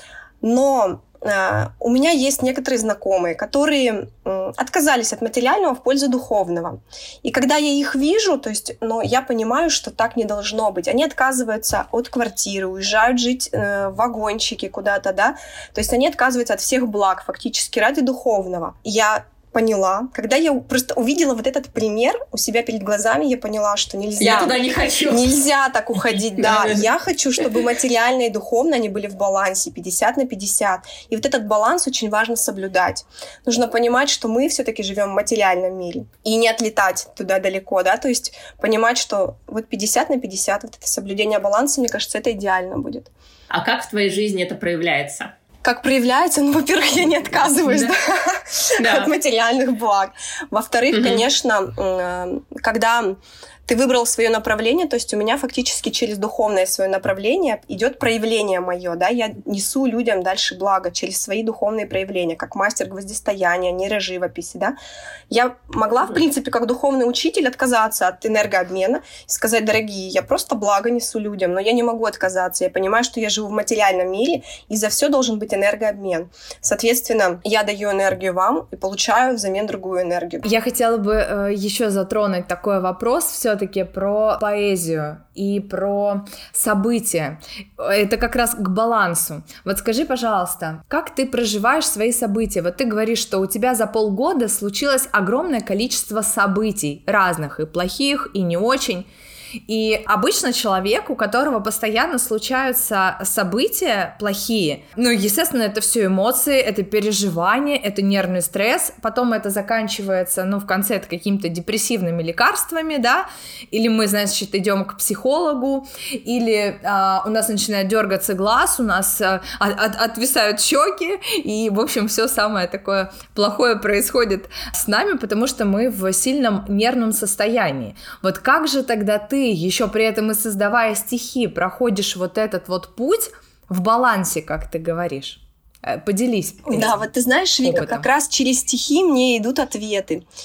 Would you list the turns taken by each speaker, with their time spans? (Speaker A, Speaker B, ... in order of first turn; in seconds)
Speaker A: 0.4-43.1, 45.6-64.8, 65.3-80.5, 136.7-140.2
Speaker B: 24.2-25.3, 26.0-26.9, 43.5-45.3, 47.5-48.0, 48.8-49.1, 50.9-51.2
Speaker C: 80.5-99.1, 99.7-137.0, 137.6-138.1